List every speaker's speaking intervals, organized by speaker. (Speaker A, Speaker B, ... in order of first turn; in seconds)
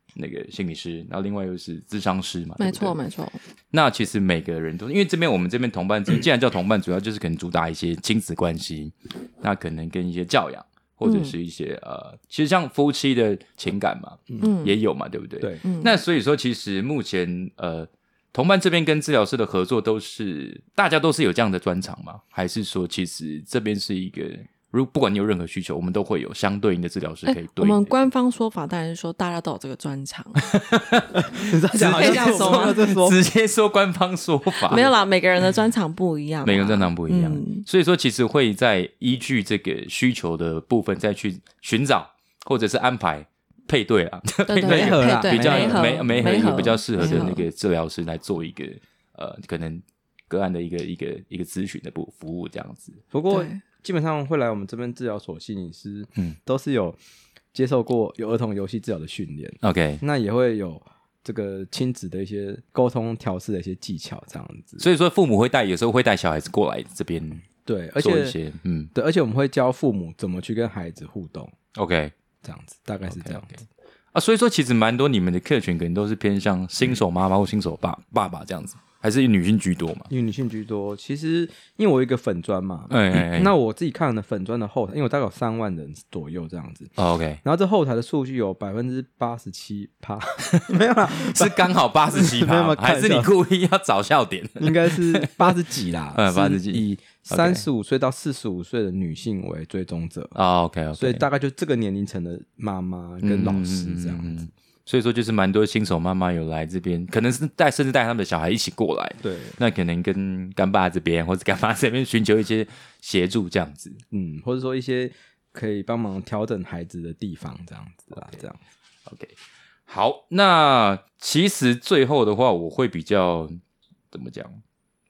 Speaker A: 0.2-3.0, 3.7-27.9, 30.5-31.2, 31.7-34.8, 36.4-53.0, 59.6-60.0, 64.8-67.5, 68.0-68.9, 71.8-72.1, 73.1-73.6, 74.1-80.1, 82.9-83.5, 87.0-87.4, 90.5-95.5, 96.1-97.7, 100.3-101.2, 103.2-114.0, 119.1-123.6, 124.1-124.6
Speaker B: 2.6-3.4, 11.0-11.3, 14.4-14.8, 15.6-15.9, 27.3-30.6, 31.8-33.0, 34.7-37.6, 44.5-47.5, 53.3-53.6
Speaker C: 31.3-33.2, 44.6-47.3, 53.1-57.0, 57.5-64.9, 67.7-68.4, 68.9-71.5, 72.4-73.6, 80.1-86.9, 87.4-93.3, 94.6-100.4, 101.0-104.5, 109.2-109.6, 114.1-118.6